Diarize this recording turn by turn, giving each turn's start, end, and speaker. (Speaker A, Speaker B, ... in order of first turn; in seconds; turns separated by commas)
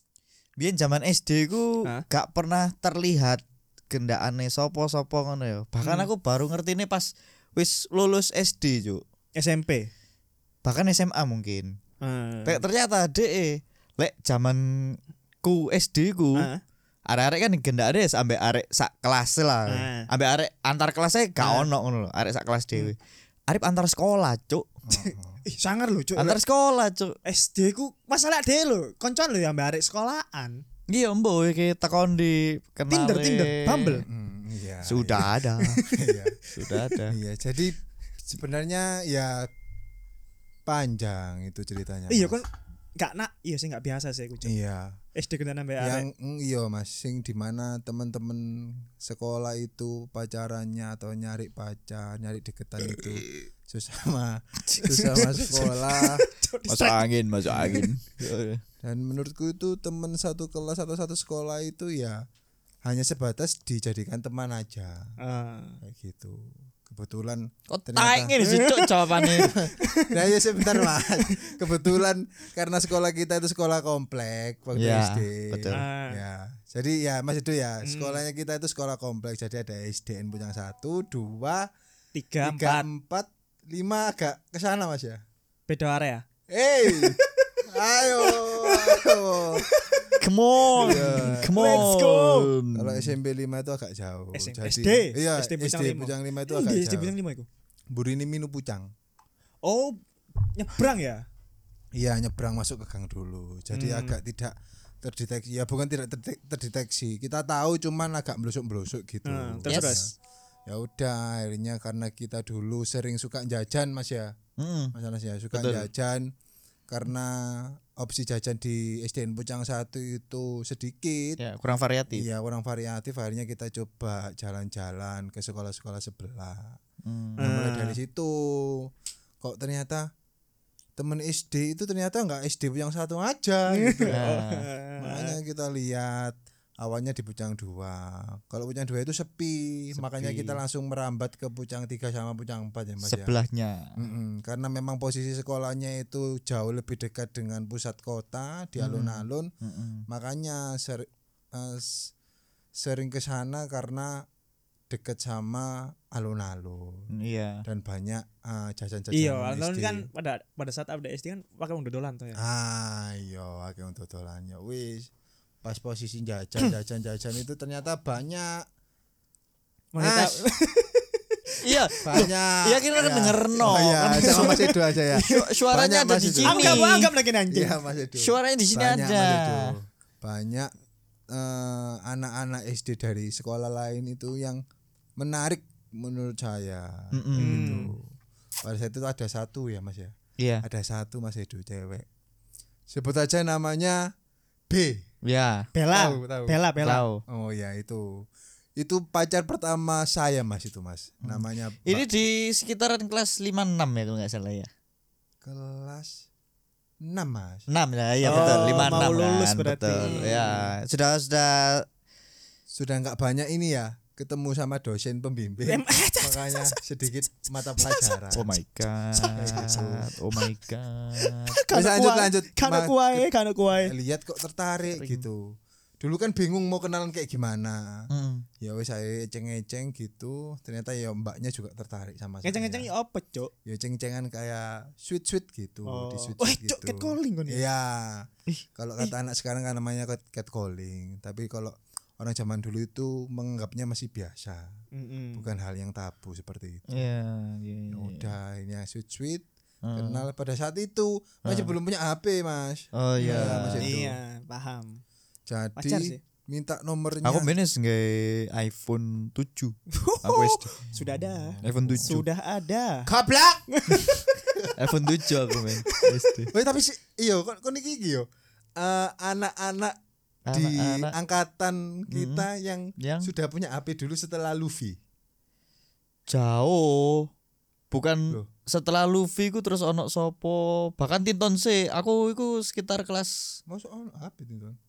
Speaker A: 0.6-9.0, Speaker B: 5.8-6.1, Speaker B: 9.4-9.9, Speaker A: 10.6-11.7, Speaker B: 12.0-12.6, Speaker A: 12.4-16.5, Speaker B: 16.4-16.6, Speaker A: 17.1-23.0, Speaker B: 19.7-20.1, Speaker B: 21.4-21.7, Speaker A: 23.5-24.7, Speaker C: 24.8-25.4, Speaker B: 24.9-26.4, Speaker A: 26.1-27.1, Speaker B: 27.2-30.6, Speaker A: 30.9-34.0, Speaker B: 32.9-34.0, Speaker C: 34.0-35.4, Speaker A: 34.8-35.8, Speaker B: 35.6-36.8, Speaker C: 35.9-36.4, Speaker A: 36.5-37.2, Speaker C: 37.1-39.5, Speaker C: 40.6-42.4, Speaker B: 42.1-44.5, Speaker C: 44.4-45.0, Speaker B: 45.1-46.0, Speaker C: 45.8-56.2, Speaker A: 52.9-53.3, Speaker A: 54.7-55.7, Speaker B: 54.9-57.9, Speaker A: 56.7-58.6, Speaker C: 57.5-57.9, Speaker C: 58.8-62.2, Speaker C: 62.8-65.1, Speaker B: 65.2-65.8, Speaker C: 65.8-68.3, Speaker A: 67.7-69.5, Speaker B: 68.4-71.4, Speaker C: 69.4-81.7, Speaker A: 74.8-75.8, Speaker B: 75.7-76.2, Speaker B: 77.8-78.2, Speaker B: 82.1-82.8, Speaker C: 82.4-85.2, Speaker B: 85.7-86.2, Speaker C: 86.5-90.1, Speaker B: 86.8-92.5, Speaker A: 90.2-93.1, Speaker C: 90.7-91.9, Speaker C: 92.7-97.1, Speaker B: 94.3-97.5, Speaker C: 97.9-98.9, Speaker B: 99.6-101.2, Speaker C: 101.9-110.1, Speaker B: 103.7-104.2, Speaker B: 109.2-110.1, Speaker A: 109.7-110.0, Speaker C: 110.7-114.3, Speaker A: 114.6-114.9, Speaker C: 114.9-116.3, Speaker A: 115.5-115.9, Speaker C: 116.9-121.4, Speaker A: 121.4-122.3, Speaker C: 122.1-126.8, Speaker A: 127.0-127.5, Speaker C: 127.4-128.9, Speaker B: 127.4-128.0, Speaker C: 129.4-130.1, Speaker C: 131.0-134.3, Speaker B: 133.7-135.4, Speaker A: 134.1-134.6, Speaker C: 135.0-143.3, Speaker A: 140.0-140.6, Speaker A: 143.0-143.9, Speaker C: 143.9-149.5, Speaker A: 148.8-150.0, Speaker C: 150.1-152.1, Speaker C: 152.8-154.2, Speaker C: 154.9-157.1, Speaker A: 157.2-157.6, Speaker C: 157.6-160.1, Speaker B: 159.1-162.4, Speaker C: 162.4-165.1, Speaker C: 165.6-168.6, Speaker B: 169.9-172.2, Speaker C: 170.0-170.4, Speaker A: 171.6-174.7, Speaker C: 172.0-176.9, Speaker B: 174.2-175.5, Speaker A: 175.2-177.1, Speaker B: 176.4-177.8, Speaker C: 177.5-180.7, Speaker A: 178.2-179.7, Speaker C: 181.3-184.6, Speaker C: 185.2-188.0, Speaker A: 187.1-187.8, Speaker B: 187.4-187.9, Speaker C: 188.6-192.1, Speaker A: 190.4-190.6, Speaker C: 192.9-194.0, Speaker C: 194.7-195.0, Speaker A: 195.2-195.7, Speaker B: 195.7-197.0, Speaker C: 195.9-196.6, Speaker A: 196.8-197.2, Speaker C: 197.3-198.2, Speaker C: 198.8-202.1, Speaker A: 201.2-204.7, Speaker C: 205.4-206.2, Speaker C: 207.0-207.7, Speaker A: 207.7-211.8, Speaker C: 208.2-209.1, Speaker B: 208.2-210.7, Speaker C: 210.0-210.7, Speaker C: 212.7-218.6, Speaker B: 215.7-217.2, Speaker B: 217.8-218.2, Speaker A: 218.3-221.5, Speaker B: 219.1-220.4, Speaker C: 219.3-220.1, Speaker B: 221.2-223.9, Speaker C: 221.7-225.4, Speaker A: 224.9-225.2, Speaker C: 226.0-228.1, Speaker A: 228.1-228.4, Speaker C: 228.6-232.9, Speaker B: 232.4-233.5, Speaker C: 233.6-244.8, Speaker B: 235.8-237.6, Speaker B: 244.9-245.5, Speaker C: 245.3-247.0, Speaker A: 246.9-248.3, Speaker C: 247.9-254.1, Speaker A: 249.8-250.2, Speaker A: 251.4-251.7, Speaker A: 252.9-254.0, Speaker B: 253.2-255.0, Speaker C: 255.5-257.5, Speaker B: 255.8-256.2, Speaker A: 257.2-260.8, Speaker B: 259.9-263.1, Speaker C: 261.6-262.2, Speaker A: 261.6-262.2, Speaker C: 263.1-263.6, Speaker B: 263.7-266.3, Speaker A: 264.8-266.5, Speaker C: 266.5-268.2, Speaker C: 268.8-269.9, Speaker A: 270.4-271.1, Speaker C: 270.5-275.0, Speaker A: 272.1-272.5, Speaker A: 273.0-273.3, Speaker A: 276.3-277.3, Speaker A: 277.9-283.6, Speaker C: 283.7-284.8